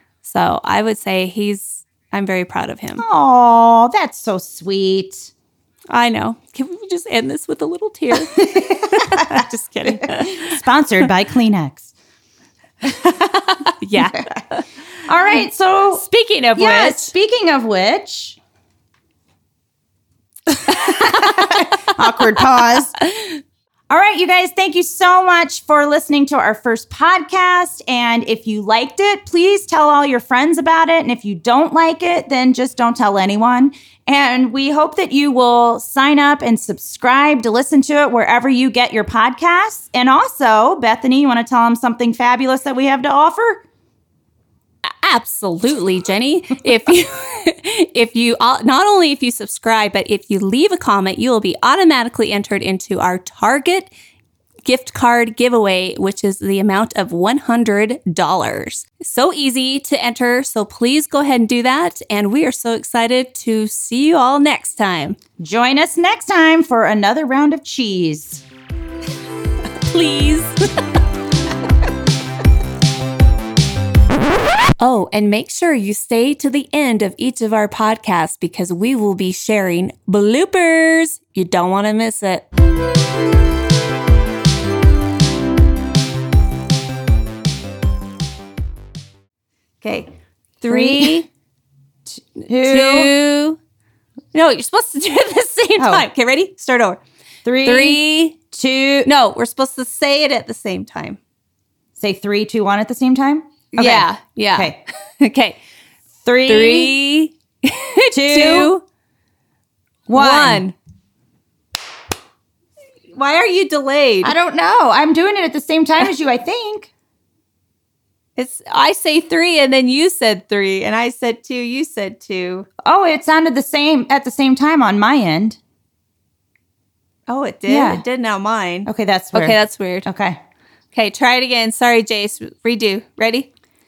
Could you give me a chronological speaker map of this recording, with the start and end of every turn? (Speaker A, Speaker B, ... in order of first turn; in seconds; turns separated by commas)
Speaker A: 0.2-3.1, Speaker B: 3.0-5.3, Speaker A: 5.9-10.6, Speaker B: 8.4-11.9, Speaker A: 12.8-14.6, Speaker B: 14.0-14.3, Speaker B: 15.1-16.0, Speaker A: 15.9-17.1, Speaker B: 16.6-18.4, Speaker B: 20.5-22.9, Speaker A: 20.7-21.7, Speaker A: 23.1-23.4, Speaker B: 23.9-43.6, Speaker A: 45.0-53.9, Speaker A: 54.7-65.2, Speaker B: 65.4-68.4, Speaker A: 69.8-70.7, Speaker A: 74.8-82.5, Speaker B: 89.8-90.1, Speaker A: 90.6-91.3, Speaker B: 90.7-91.2, Speaker B: 92.1-93.1, Speaker A: 92.6-93.6, Speaker A: 94.3-97.0, Speaker B: 95.8-96.0, Speaker B: 97.5-99.1, Speaker A: 97.6-98.4, Speaker A: 99.0-101.2, Speaker B: 102.0-104.8, Speaker A: 103.7-105.6, Speaker B: 106.2-106.9, Speaker A: 106.5-108.8, Speaker B: 108.1-108.7, Speaker B: 110.1-110.7, Speaker A: 110.1-110.8, Speaker A: 113.1-114.3, Speaker B: 114.2-116.9, Speaker A: 118.4-122.7, Speaker B: 122.8-125.6, Speaker A: 127.3-130.1, Speaker B: 127.7-128.0, Speaker B: 128.9-130.4, Speaker A: 130.9-133.5